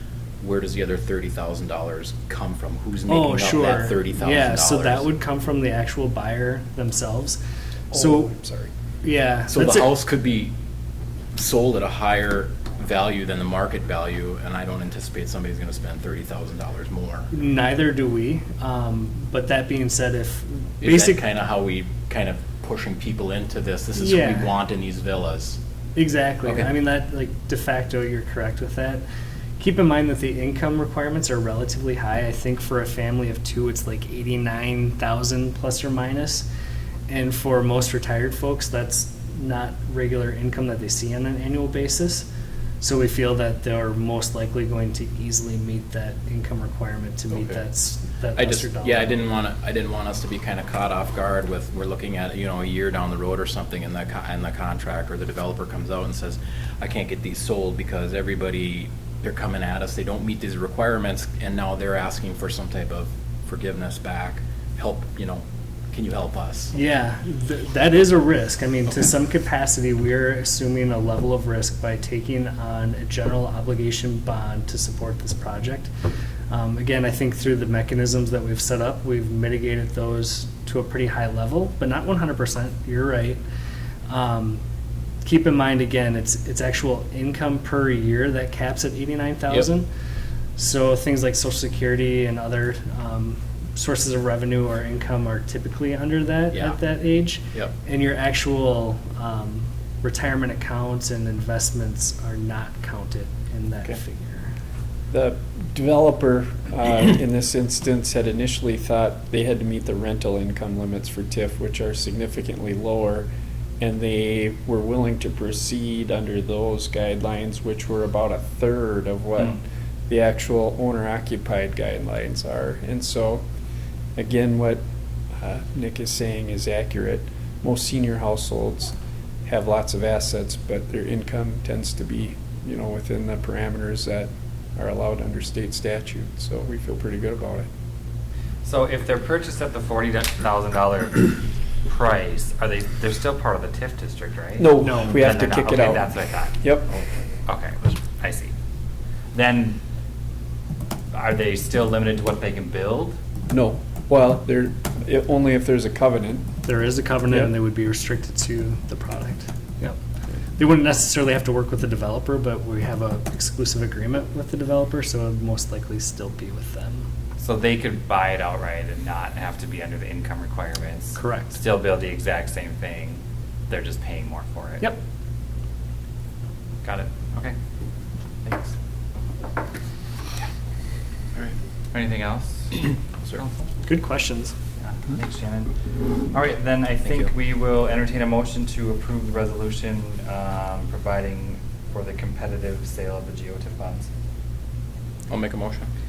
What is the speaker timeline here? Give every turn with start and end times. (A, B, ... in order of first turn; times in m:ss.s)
0:00.4-0:05.1 A
0:03.1-0:07.4 B
0:07.9-0:08.7 C
0:08.0-0:08.3 B
0:09.0-0:09.9 B
0:09.5-0:10.6 A
0:11.4-0:17.3 A
0:17.3-0:21.2 B
0:20.8-0:25.6 A
0:24.0-0:24.5 B
0:26.0-0:29.1 B
0:26.4-0:26.7 A
0:29.6-0:36.5 B
0:37.1-0:42.3 B
0:42.8-0:49.2 B
0:47.3-0:47.6 A
0:48.4-1:06.7 A
1:06.7-1:15.9 B
1:16.5-1:23.4 B
1:24.1-1:24.6 B
1:25.2-1:29.9 B
1:30.6-1:44.5 B
1:36.5-1:36.9 A
1:45.1-1:53.3 C
1:53.8-2:03.4 C
2:04.2-2:04.8 C
2:05.4-2:09.0 C
2:09.5-2:17.7 C
2:18.6-2:26.8 D
2:24.6-2:26.9 C
2:27.5-2:28.5 D
2:29.3-2:29.8 D
2:31.1-2:33.2 D
2:33.5-2:36.5 C
2:36.6-2:40.0 B
2:40.6-2:47.1 B
2:47.4-2:54.9 D
2:51.2-2:51.6 B
2:56.8-2:57.6 D
2:58.4-2:58.8 D
3:01.9-3:03.7 D
3:03.9-3:04.6 B
3:04.8-3:05.7 D
3:06.3-3:14.1 D
3:15.3-3:15.9 A